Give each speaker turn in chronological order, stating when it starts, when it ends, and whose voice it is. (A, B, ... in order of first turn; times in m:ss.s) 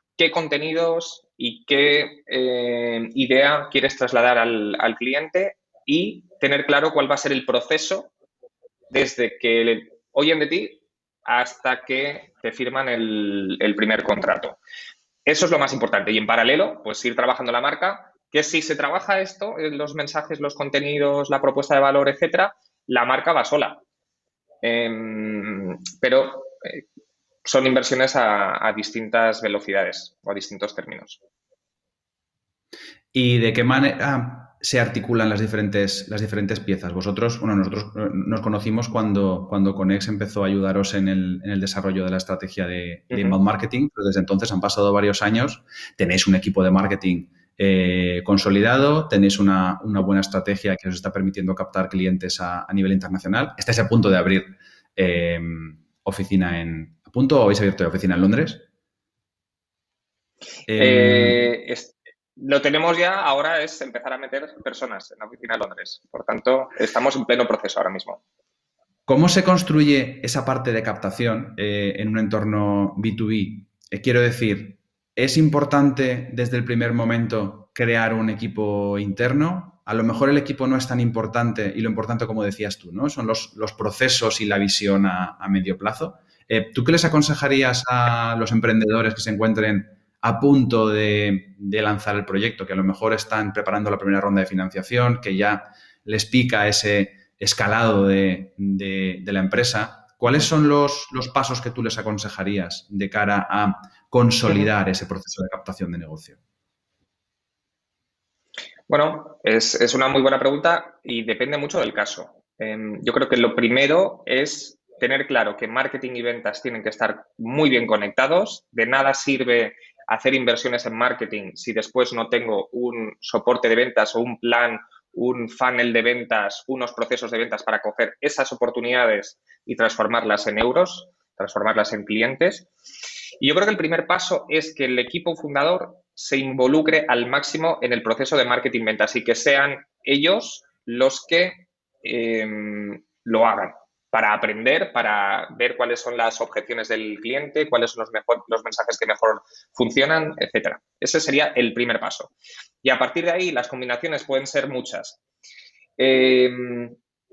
0:00.2-0:08.1 A
0:08.9-0:14.6 A
0:15.2-0:23.8 A
0:24.6-0:26.8 A
0:27.4-0:31.2 A
0:33.1-0:58.6 B
0:43.1-0:43.4 A
1:00.7-1:01.5 B
1:00.8-1:08.2 A
1:09.1-1:46.4 B
1:48.9-2:12.7 A
2:13.4-2:32.3 A
2:32.8-2:35.2 A
2:36.0-2:37.0 A